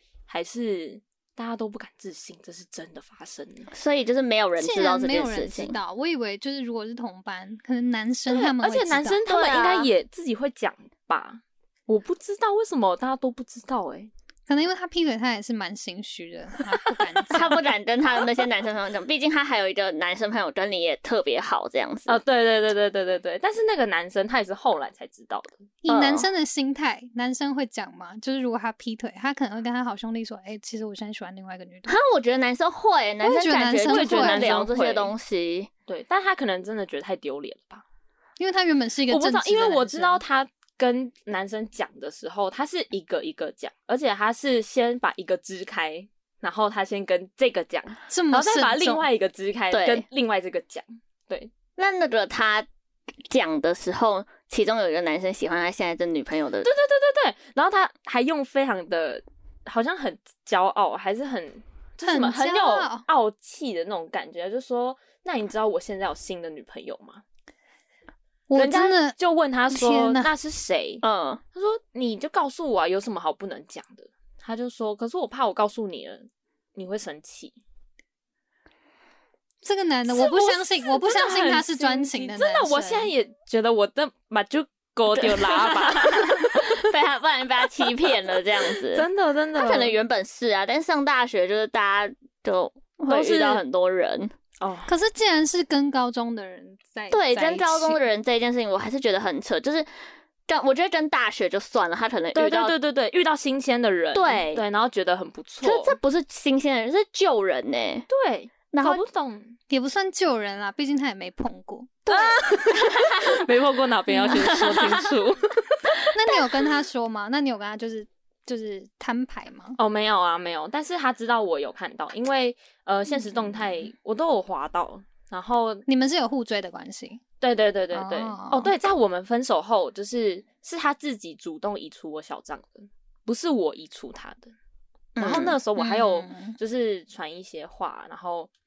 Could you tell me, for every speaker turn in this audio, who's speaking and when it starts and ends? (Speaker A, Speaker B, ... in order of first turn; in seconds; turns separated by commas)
Speaker A: 0.3-3.7, Speaker B: 3.7-5.8, Speaker C: 4.6-9.2, Speaker A: 8.3-14.1, Speaker B: 9.3-9.9, Speaker C: 14.5-17.6, Speaker B: 17.3-22.2, Speaker A: 22.1-25.6, Speaker C: 25.8-32.0, Speaker B: 25.9-26.3, Speaker B: 31.9-35.7, Speaker C: 33.2-34.6, Speaker A: 33.9-35.1, Speaker A: 35.9-37.8, Speaker C: 38.4-40.2, Speaker A: 39.1-51.5, Speaker C: 48.1-49.0, Speaker B: 49.7-50.0, Speaker B: 51.8-52.7, Speaker B: 53.3-56.7, Speaker A: 56.6-67.2, Speaker C: 62.0-63.0, Speaker C: 68.5-69.2, Speaker A: 68.6-71.0, Speaker C: 69.7-70.3, Speaker B: 71.0-71.4, Speaker A: 71.5-77.6, Speaker C: 79.6-83.1, Speaker A: 80.1-86.9, Speaker B: 85.1-94.3, Speaker A: 88.6-90.0, Speaker A: 93.1-93.6, Speaker A: 94.6-94.9, Speaker C: 94.9-98.0, Speaker B: 97.1-99.9, Speaker B: 100.5-102.7, Speaker A: 102.3-106.0, Speaker B: 104.1-104.6, Speaker B: 105.6-108.1, Speaker A: 108.1-109.5, Speaker B: 108.7-109.0, Speaker C: 109.7-112.1, Speaker B: 112.1-113.5, Speaker A: 112.1-116.0, Speaker B: 114.1-115.1, Speaker C: 116.1-119.8, Speaker A: 119.8-125.8, Speaker C: 125.9-127.2, Speaker A: 127.4-134.5, Speaker C: 127.9-128.7, Speaker B: 135.2-135.6, Speaker A: 135.2-138.5, Speaker C: 135.8-136.6